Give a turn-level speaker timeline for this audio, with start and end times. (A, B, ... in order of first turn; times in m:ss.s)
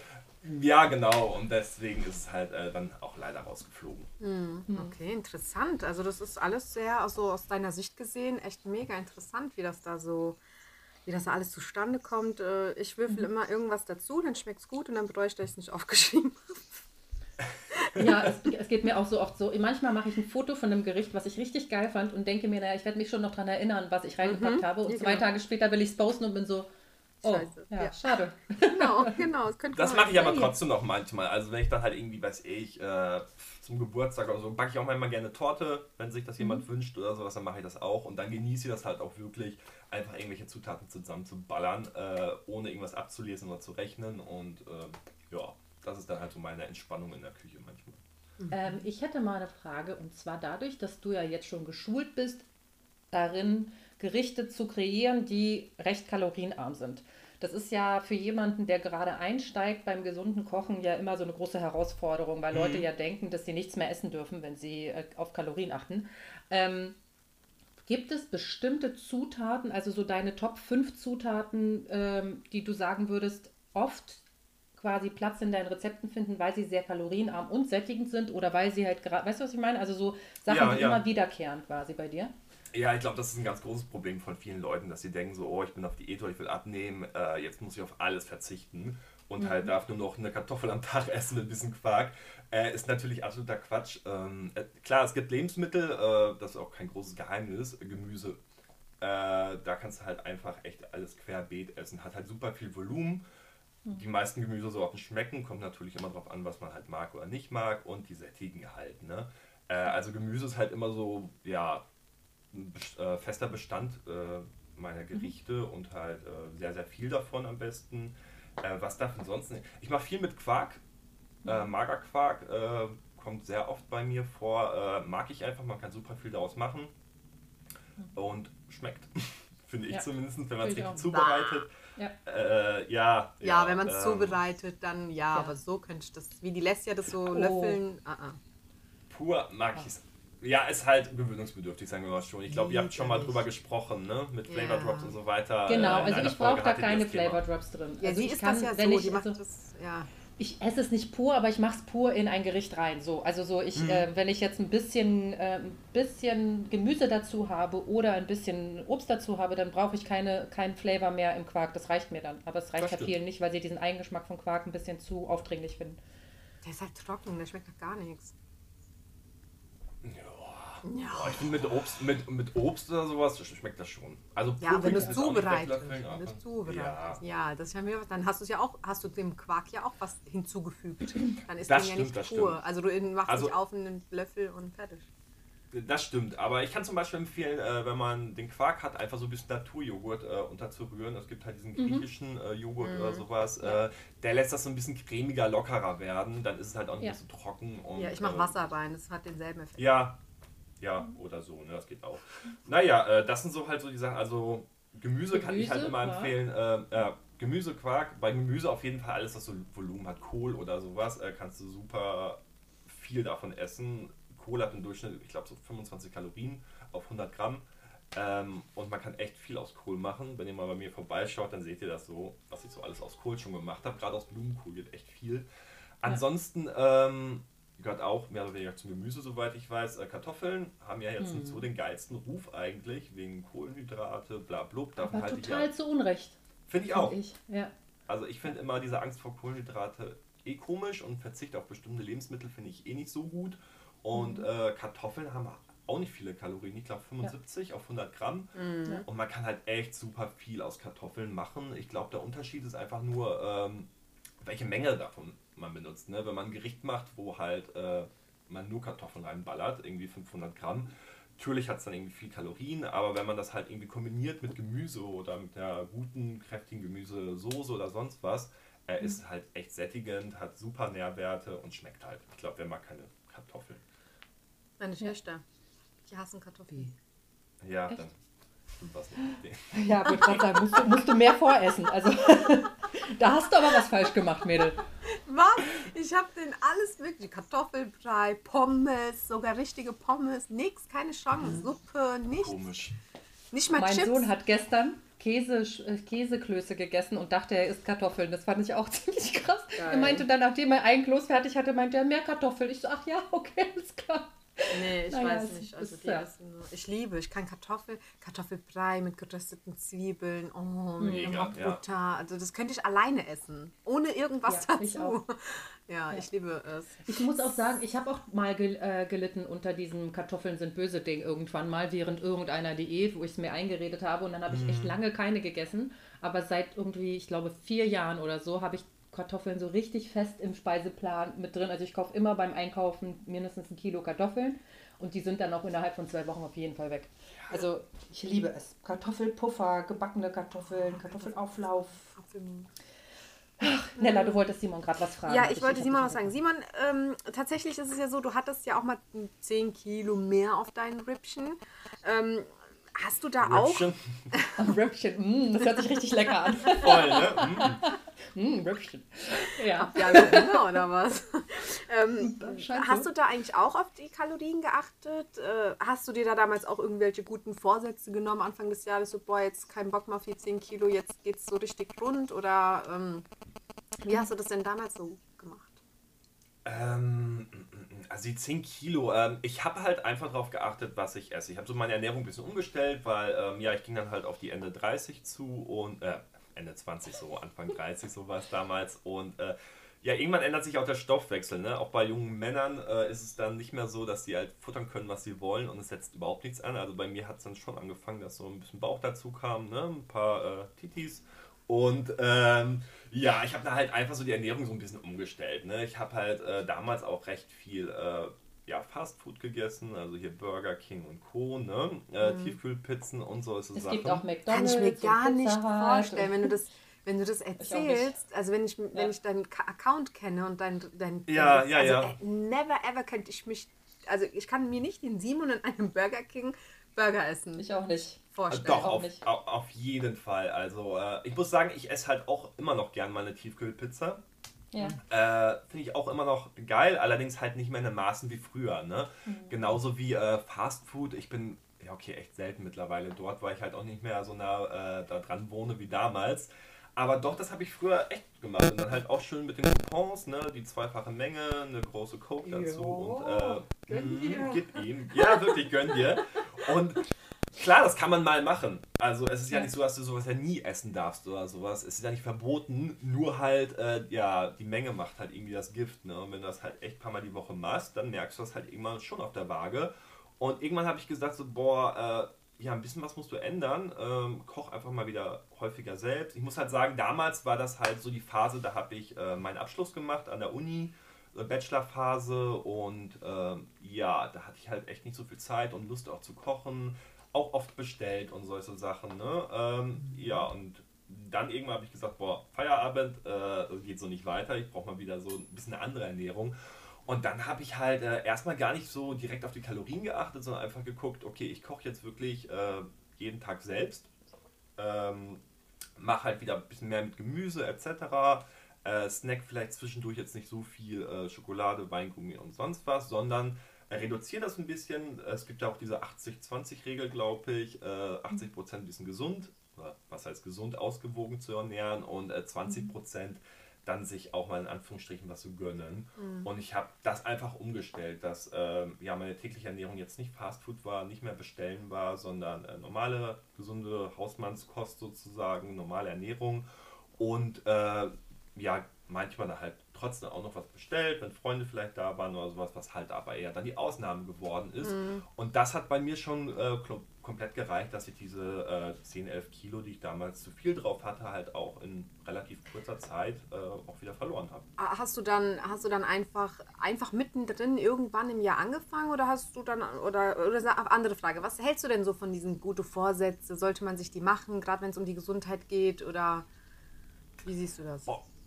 0:00.4-0:04.1 A
0:04.2-0:10.4 B
0:04.7-0:04.9 C
0:11.1-0:16.7 B
0:18.0-0:26.7 C
0:24.2-0:25.2 B
0:27.2-0:29.1 C
0:27.2-0:30.4 B
0:29.8-0:48.0 A
0:30.2-0:30.5 C
0:48.4-0:48.8 B
0:48.5-0:52.5 C
0:53.1-1:07.0 C
1:02.5-1:02.9 A
1:07.8-1:14.2 C
1:14.8-1:22.3 C
1:20.5-1:21.0 A
1:22.7-1:38.4 A
1:29.4-1:29.6 C
1:39.0-1:43.2 A
1:43.9-1:51.8 A
1:52.5-2:00.8 A
2:01.4-2:06.9 A
2:01.4-2:01.7 C
2:08.1-2:11.7 A
2:10.6-2:11.0 C
2:11.0-2:11.6 B
2:12.2-2:14.4 A
2:13.4-2:18.4 B
2:17.3-2:17.8 C
2:19.1-2:27.4 A
2:22.5-2:23.4 B
2:24.5-2:25.2 B
2:25.7-2:29.4 C
2:28.0-2:30.1 B
2:30.4-2:46.0 C
2:33.8-2:34.1 A
2:42.8-2:43.1 A
2:46.6-2:48.3 B
2:50.0-2:57.2 A
2:50.8-2:51.5 B
2:54.6-3:05.1 B
2:54.9-2:55.2 C
3:01.7-3:02.6 A
3:03.3-3:03.6 A
3:05.7-3:18.5 A
3:11.8-3:12.1 C
3:12.8-3:13.7 B
3:18.0-3:19.9 B
3:19.8-3:20.2 A
3:20.8-3:45.5 A
3:25.3-3:26.4 C
3:46.0-3:55.7 A
3:51.2-3:51.6 C
3:55.0-3:56.4 C
3:56.7-3:57.2 A
3:56.9-3:57.7 C
3:58.1-4:08.5 A
4:04.1-4:04.4 C
4:08.6-4:09.0 B
4:09.1-4:13.9 A
4:14.4-4:33.8 A
4:34.8-4:35.4 B
4:36.1-4:36.9 B
4:37.6-4:38.2 A
4:38.8-4:40.4 A
4:39.7-4:44.8 C
4:45.3-4:52.6 B
4:52.3-4:53.0 A
4:53.5-4:54.3 B
4:53.8-5:06.3 C
4:59.8-5:00.2 B
5:04.7-5:17.6 B
5:11.0-5:11.4 C
5:11.0-5:11.8 A
5:14.5-5:15.2 C
5:17.0-5:42.1 C
5:24.5-5:25.0 A
5:40.9-5:41.4 B
5:42.1-5:42.7 B
5:43.6-5:46.3 C
5:44.0-5:44.4 B
5:45.3-5:54.7 B
5:53.4-5:54.2 A
5:54.6-6:00.7 C
5:56.7-5:57.8 A
5:59.8-6:13.2 B
6:02.2-6:03.1 C
6:14.0-6:15.8 B
6:16.6-6:54.2 A
6:52.2-6:52.6 B
6:53.8-6:56.5 C
6:54.5-7:07.6 B
6:57.6-6:58.2 C
7:01.3-7:02.1 A
7:07.6-7:09.2 C
7:08.3-7:09.0 B
7:08.5-7:14.2 A
7:14.7-7:15.0 C
7:15.0-8:16.5 A
7:19.3-7:19.7 C
7:32.4-7:35.3 B
8:17.1-8:24.1 A
8:24.8-8:25.4 A
8:26.0-8:56.7 A
8:46.2-8:46.5 B
8:57.2-9:14.7 A
9:04.8-9:05.2 B
9:14.8-9:26.5 B
9:27.4-9:28.1 B